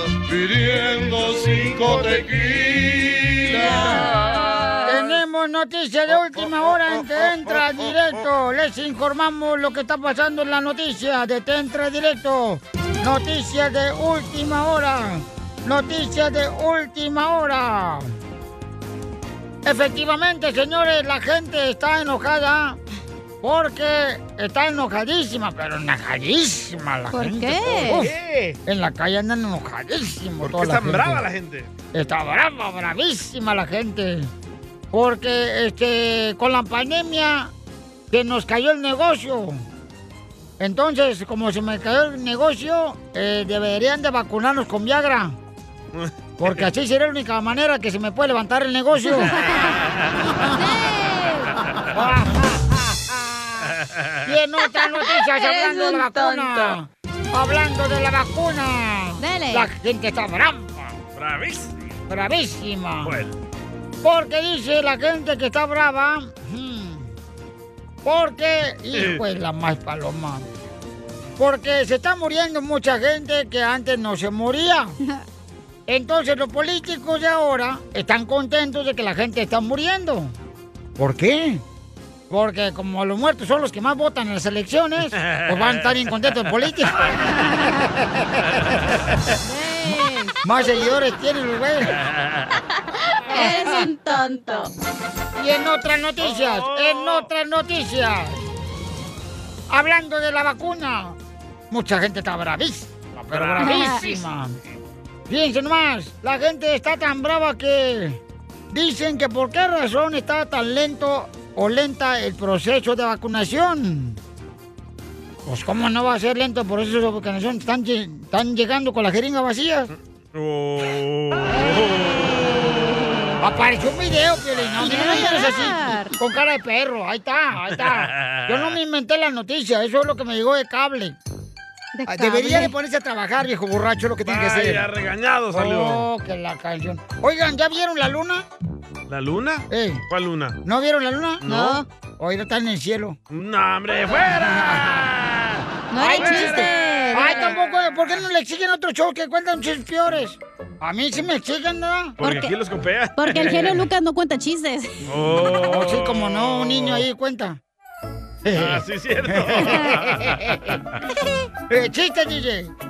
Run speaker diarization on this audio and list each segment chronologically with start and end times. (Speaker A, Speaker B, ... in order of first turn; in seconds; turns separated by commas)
Speaker A: 0.2-3.5, Speaker B: 3.5-5.0, Speaker C: 4.8-18.1, Speaker C: 19.6-22.8, Speaker C: 23.4-28.1, Speaker B: 27.1-28.1, Speaker D: 27.8-28.6, Speaker C: 28.6-31.2, Speaker D: 30.4-31.7, Speaker C: 31.9-34.3, Speaker C: 34.9-37.5, Speaker C: 38.1-39.6, Speaker C: 40.6-45.4, Speaker D: 45.9-46.6, Speaker C: 46.4-49.4, Speaker B: 49.1-49.8, Speaker B: 50.5-51.6, Speaker C: 51.9-53.7, Speaker D: 53.9-54.2, Speaker C: 54.2-60.9, Speaker B: 55.5-56.3, Speaker B: 59.2-59.7, Speaker D: 61.1-61.7, Speaker C: 62.1-63.2, Speaker D: 63.0-63.3, Speaker C: 64.0-67.1, Speaker C: 68.0-70.5, Speaker D: 68.9-69.2, Speaker C: 71.4-75.0, Speaker C: 75.9-80.3, Speaker C: 81.0-81.6, Speaker C: 82.3-88.8, Speaker D: 85.2-85.9, Speaker B: 89.4-90.3, Speaker C: 90.4-91.9, Speaker B: 93.2-94.7, Speaker C: 93.3-93.8, Speaker C: 95.4-98.4, Speaker D: 96.2-97.3, Speaker C: 99.7-101.2, Speaker C: 101.7-104.6, Speaker D: 103.3-104.0, Speaker B: 103.6-104.1, Speaker C: 105.3-108.2, Speaker C: 108.7-114.2, Speaker C: 115.5-119.9, Speaker D: 120.3-122.8, Speaker C: 123.4-131.2, Speaker D: 124.8-125.2, Speaker B: 124.8-126.1, Speaker D: 127.7-128.8, Speaker B: 131.9-132.7, Speaker C: 132.1-134.9, Speaker D: 134.2-136.1, Speaker C: 135.5-138.4, Speaker D: 139.1-140.6, Speaker C: 139.7-140.0, Speaker C: 140.6-143.2, Speaker D: 141.4-141.8, Speaker B: 141.5-141.8, Speaker D: 143.3-146.7, Speaker C: 144.3-145.0, Speaker B: 145.9-147.6, Speaker C: 146.0-152.2, Speaker B: 152.2-152.5, Speaker D: 152.2-153.8, Speaker B: 153.2-155.0, Speaker D: 155.1-157.1, Speaker C: 155.6-157.6, Speaker C: 158.4-160.6, Speaker D: 158.5-160.6, Speaker C: 161.7-162.7